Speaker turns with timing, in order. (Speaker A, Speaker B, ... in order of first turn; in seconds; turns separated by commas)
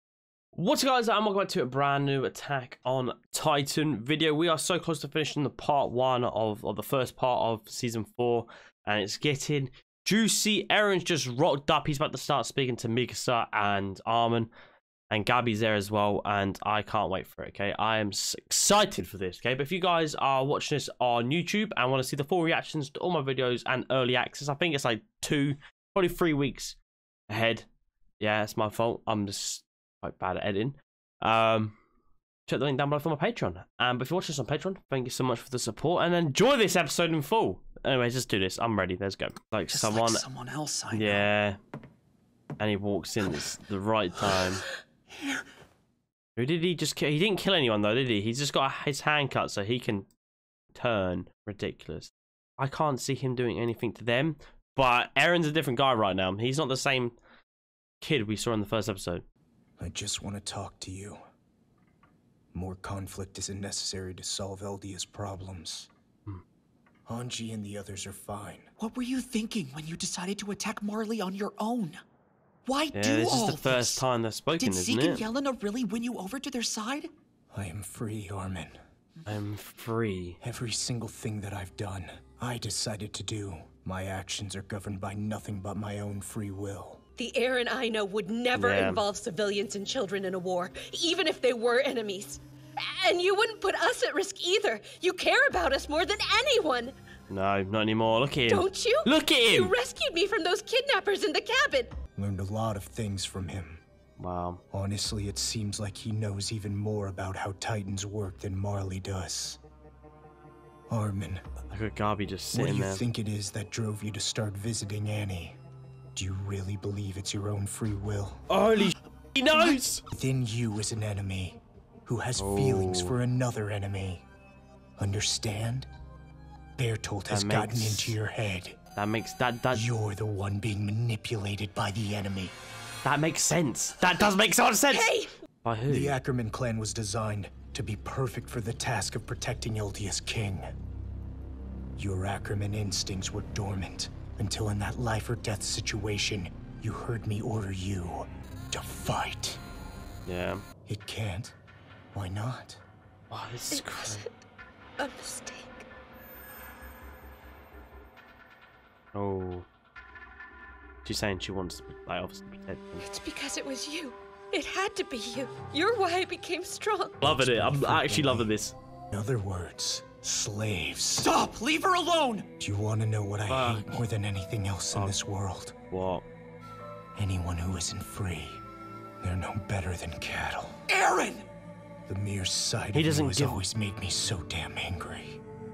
Speaker A: 0.5-14.5, Speaker A: 15.1-26.8, Speaker A: 27.3-27.6, Speaker A: 28.2-31.8, Speaker A: 32.5-40.2, Speaker B: 39.7-41.3, Speaker A: 40.9-41.6, Speaker A: 42.6-44.6, Speaker A: 46.4-50.1, Speaker A: 50.7-57.1, Speaker A: 58.0-59.2, Speaker C: 59.8-61.2, Speaker C: 62.5-65.9, Speaker C: 67.1-68.7, Speaker B: 68.8-72.0, Speaker B: 72.7-74.0, Speaker A: 72.9-75.2, Speaker B: 74.5-77.1, Speaker C: 77.5-78.7, Speaker A: 79.2-80.4, Speaker C: 80.4-87.0, Speaker D: 87.2-97.0, Speaker A: 88.5-89.0, Speaker A: 97.3-99.7, Speaker D: 98.5-102.0, Speaker C: 102.2-103.8, Speaker A: 104.2-104.6, Speaker C: 104.7-109.6, Speaker C: 110.9-111.4, Speaker A: 111.7-113.0, Speaker C: 112.5-115.6, Speaker C: 116.2-118.5, Speaker A: 118.5-120.0, Speaker C: 120.1-124.2, Speaker A: 122.3-123.2, Speaker C: 125.0-125.9, Speaker C: 126.8-128.8, Speaker A: 127.3-128.2, Speaker A: 128.9-129.8, Speaker C: 129.7-132.5, Speaker A: 133.0-135.1, Speaker D: 134.9-135.3, Speaker A: 135.6-136.2, Speaker C: 135.9-140.7, Speaker C: 142.0-149.6, Speaker A: 150.2-150.6, Speaker C: 150.8-151.5, Speaker C: 152.1-152.8, Speaker A: 153.3-154.2, Speaker D: 153.7-154.3, Speaker D: 155.0-155.8, Speaker A: 159.1-159.7, Speaker A: 161.0-163.0, Speaker D: 163.0-167.3, Speaker A: 167.2-168.7, Speaker C: 167.2-168.5, Speaker C: 169.1-171.3, Speaker B: 171.2-172.5, Speaker C: 172.6-175.7, Speaker A: 173.5-174.0, Speaker A: 175.9-176.2, Speaker C: 177.2-178.6, Speaker C: 179.2-180.8, Speaker B: 180.9-181.4, Speaker C: 182.1-185.4, Speaker A: 182.9-183.6